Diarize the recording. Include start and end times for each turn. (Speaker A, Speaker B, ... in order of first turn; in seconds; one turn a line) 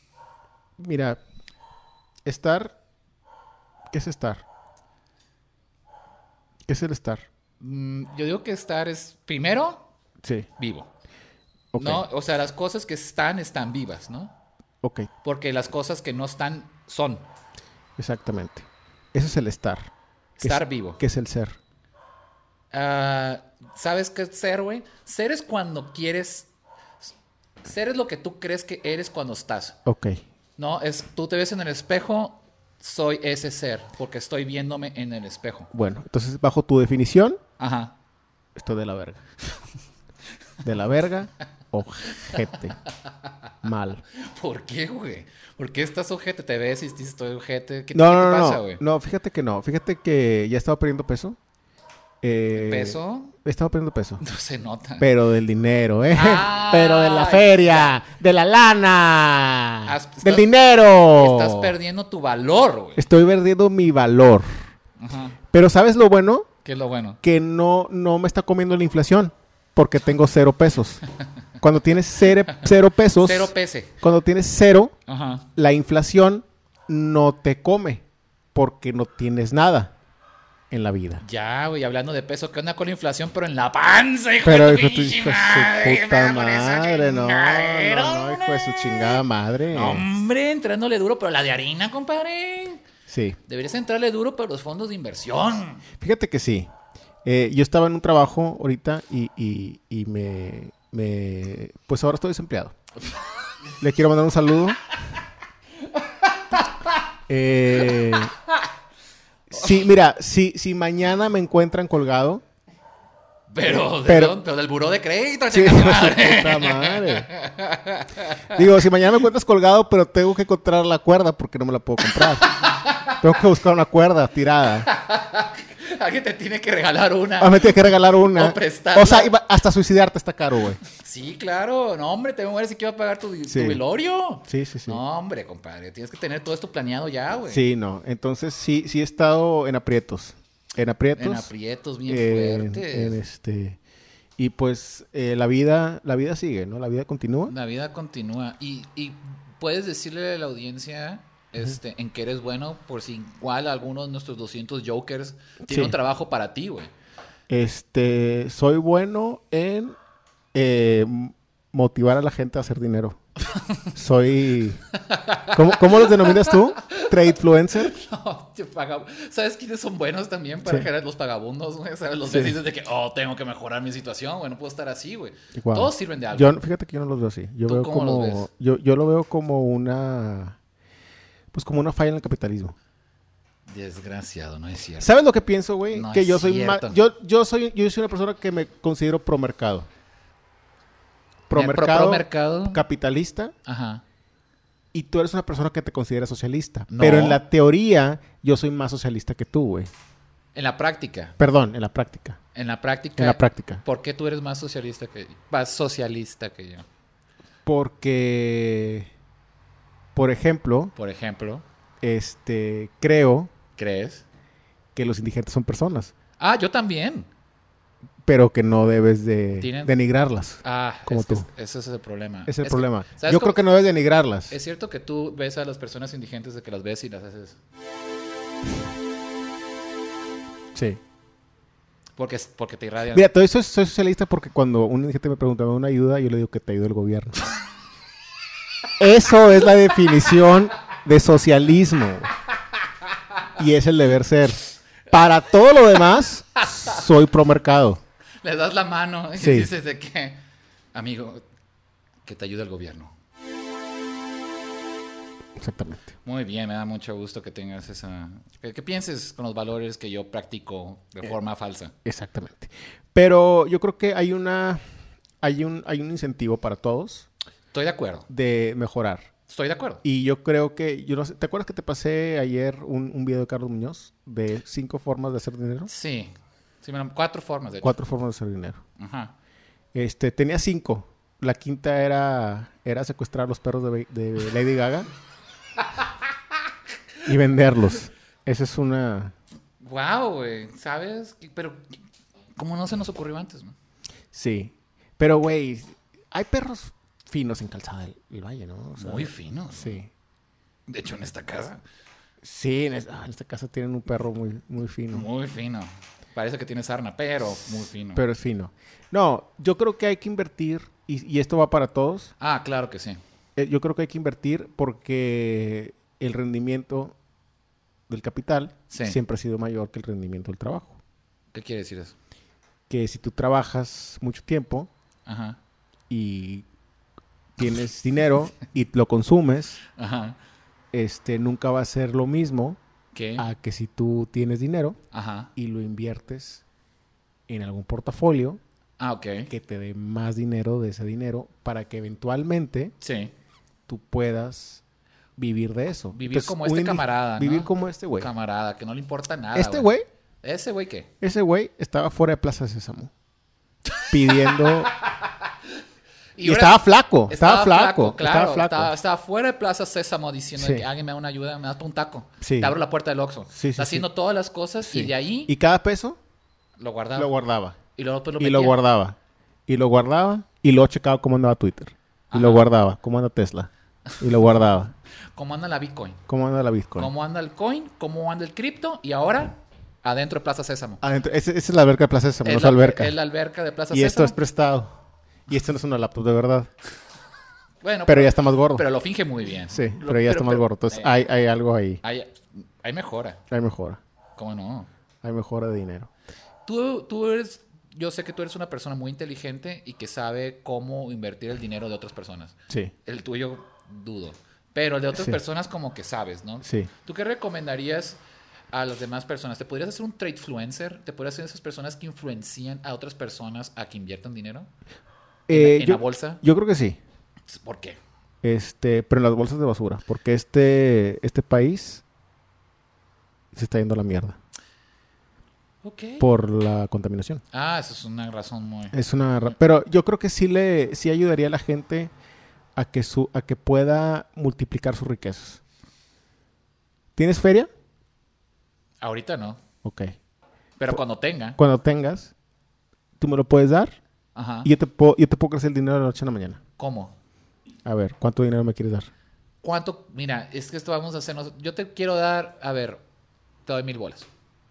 Speaker A: 0.8-1.2
Speaker A: 2.2-2.8
Speaker A: 3.9-4.5
Speaker A: 6.7-7.3
Speaker B: 7.6-9.8
Speaker B: 10.6-10.9
Speaker A: 11.7-12.0
Speaker B: 11.8-14.3
Speaker A: 14.8-15.1
Speaker B: 15.2-17.3
Speaker A: 18.0-21.6
Speaker B: 20.4-21.0
Speaker B: 22.7-26.5
Speaker B: 27.6-29.8
Speaker A: 29.9-30.2
Speaker B: 30.6-35.7
Speaker A: 35.7-37.4
Speaker B: 37.6-38.0
Speaker A: 38.5-39.2
Speaker A: 40.6-42.8
Speaker B: 42.9-43.5
Speaker A: 43.6-44.0
Speaker B: 44.1-48.8
Speaker A: 47.9-51.4
Speaker A: 52.2-54.2
Speaker B: 52.5-53.3
Speaker B: 54.2-55.1
Speaker A: 55.0-61.8
Speaker B: 56.1-58.0
Speaker B: 59.9-60.5
Speaker B: 61.1-63.1
Speaker A: 63.0-64.5
Speaker B: 65.0-65.4
Speaker A: 65.5-66.5
Speaker B: 66.7-67.2
Speaker A: 67.2-71.0
Speaker A: 71.6-74.9
Speaker B: 73.2-74.0
Speaker B: 75.1-75.5
Speaker A: 75.6-79.9
Speaker A: 80.7-81.2
Speaker B: 81.2-92.8
Speaker A: 84.4-90.1
Speaker A: 93.1-93.4
Speaker B: 93.5-95.8
Speaker A: 96.0-96.7
Speaker A: 97.2-102.8
Speaker A: 103.8-104.8
Speaker A: 107.3-108.3
Speaker A: 109.5-112.4
Speaker B: 113.5-118.5
Speaker A: 113.7-114.4
Speaker A: 115.5-117.3
Speaker A: 118.5-122.5
Speaker B: 122.1-123.2
Speaker A: 123.2-124.9
Speaker B: 124.9-129.3
Speaker A: 127.4-130.8
Speaker B: 130.9-137.6
Speaker A: 133.5-133.8
Speaker A: 134.5-135.0
Speaker A: 137.5-141.5
Speaker B: 141.2-143.2
Speaker A: 142.1-143.8
Speaker A: 144.4-147.5
Speaker B: 147.5-156.9
Speaker A: 155.7-155.9
Speaker A: 157.5-159.9
Speaker A: 160.5-163.2
Speaker A: 163.9-164.8
Speaker B: 165.0-167.1
Speaker A: 165.5-167.9
Speaker B: 167.8-176.6
Speaker A: 172.3-172.6
Speaker A: 175.6-180.6
Speaker B: 177.7-178.5
Speaker A: 181.5-182.8
Speaker B: 183.7-185.1
Speaker A: 185.0-189.9
Speaker B: 185.9-187.0
Speaker A: 191.5-193.6
Speaker B: 191.5-192.8
Speaker B: 193.7-194.0
Speaker A: 194.9-199.9
Speaker B: 196.9-197.4
Speaker B: 200.6-201.4
Speaker A: 201.4-202.4
Speaker B: 202.6-206.8
Speaker A: 203.2-203.8
Speaker A: 207.7-209.1
Speaker A: 210.2-210.9
Speaker B: 210.9-211.6
Speaker A: 212.0-213.5
Speaker B: 213.8-214.2
Speaker A: 214.9-216.1
Speaker B: 216.4-217.3
Speaker A: 218.2-221.5
Speaker B: 219.6-219.9
Speaker B: 220.6-223.6
Speaker A: 222.5-224.5
Speaker B: 224.5-227.6
Speaker A: 230.8-231.0
Speaker B: 232.2-233.3
Speaker A: 233.1-237.4
Speaker A: 239.0-242.3
Speaker A: 243.6-248.0
Speaker B: 248.4-250.4
Speaker A: 249.4-249.7
Speaker B: 250.9-251.4
Speaker B: 252.2-253.2
Speaker A: 255.6-256.1
Speaker B: 256.2-261.9
Speaker A: 262.1-264.8
Speaker A: 265.4-267.3
Speaker B: 267.7-268.3
Speaker A: 268.3-269.3
Speaker B: 269.5-270.0
Speaker A: 270.0-275.9
Speaker B: 275.9-277.9
Speaker A: 277.8-278.8
Speaker B: 279.0-279.3
Speaker A: 279.9-285.1
Speaker A: 287.2-289.3
Speaker B: 289.8-292.0
Speaker B: 292.6-293.7
Speaker A: 294.3-300.1
Speaker B: 299.0-300.0
Speaker B: 300.9-301.8
Speaker A: 302.4-305.3
Speaker B: 305.1-308.2
Speaker A: 308.1-312.3
Speaker B: 312.4-313.2
Speaker A: 313.6-317.2
Speaker A: 318.1-321.0
Speaker B: 318.9-319.2
Speaker B: 321.5-322.1
Speaker A: 322.9-324.9
Speaker B: 325.3-325.6
Speaker A: 326.1-326.7
Speaker A: 327.6-329.8
Speaker B: 330.0-330.4
Speaker A: 330.9-332.8
Speaker B: 333.1-333.5
Speaker A: 333.4-335.0
Speaker B: 335.1-335.5
Speaker A: 335.6-336.6
Speaker A: 337.5-338.6
Speaker B: 339.0-339.5
Speaker A: 339.5-342.9
Speaker B: 343.0-343.3
Speaker A: 343.9-344.8
Speaker A: 345.4-348.3
Speaker B: 346.1-349.9
Speaker A: 349.5-350.1
Speaker B: 350.4-351.1
Speaker A: 351.2-353.1
Speaker B: 354.0-355.1
Speaker A: 354.1-354.9
Speaker B: 356.4-365.5
Speaker A: 356.4-358.9
Speaker A: 360.6-360.8
Speaker A: 362.4-362.8
Speaker A: 363.5-364.1
Speaker A: 364.9-366.2
Speaker B: 366.8-367.3
Speaker A: 367.2-367.8
Speaker B: 368.0-368.8
Speaker A: 368.4-374.9
Speaker B: 372.3-372.7
Speaker B: 375.4-376.2
Speaker A: 376.3-377.1
Speaker B: 377.0-381.0
Speaker A: 381.0-383.1
Speaker B: 382.4-384.4
Speaker A: 383.9-384.9
Speaker A: 385.5-386.7
Speaker B: 387.8-391.1
Speaker A: 388.1-388.8
Speaker A: 389.7-392.0
Speaker B: 392.0-393.4
Speaker A: 393.5-394.0
Speaker B: 394.4-394.9
Speaker A: 395.2-396.1
Speaker B: 396.7-408.2
Speaker A: 406.6-406.9
Speaker B: 408.7-414.7
Speaker A: 415.5-417.0
Speaker B: 415.5-416.4
Speaker B: 417.5-418.0
Speaker A: 418.4-422.0
Speaker A: 423.5-424.4
Speaker B: 425.8-426.3
Speaker A: 426.2-427.4
Speaker B: 427.5-429.0
Speaker A: 428.9-432.1
Speaker A: 432.8-435.6
Speaker A: 437.2-437.7
Speaker B: 439.0-439.6
Speaker A: 439.8-440.1
Speaker B: 440.8-441.6
Speaker A: 441.6-442.3
Speaker A: 443.2-444.0
Speaker B: 444.4-444.7
Speaker A: 444.6-446.6
Speaker B: 446.8-447.1
Speaker A: 447.9-449.1
Speaker B: 449.6-453.0
Speaker B: 453.7-454.3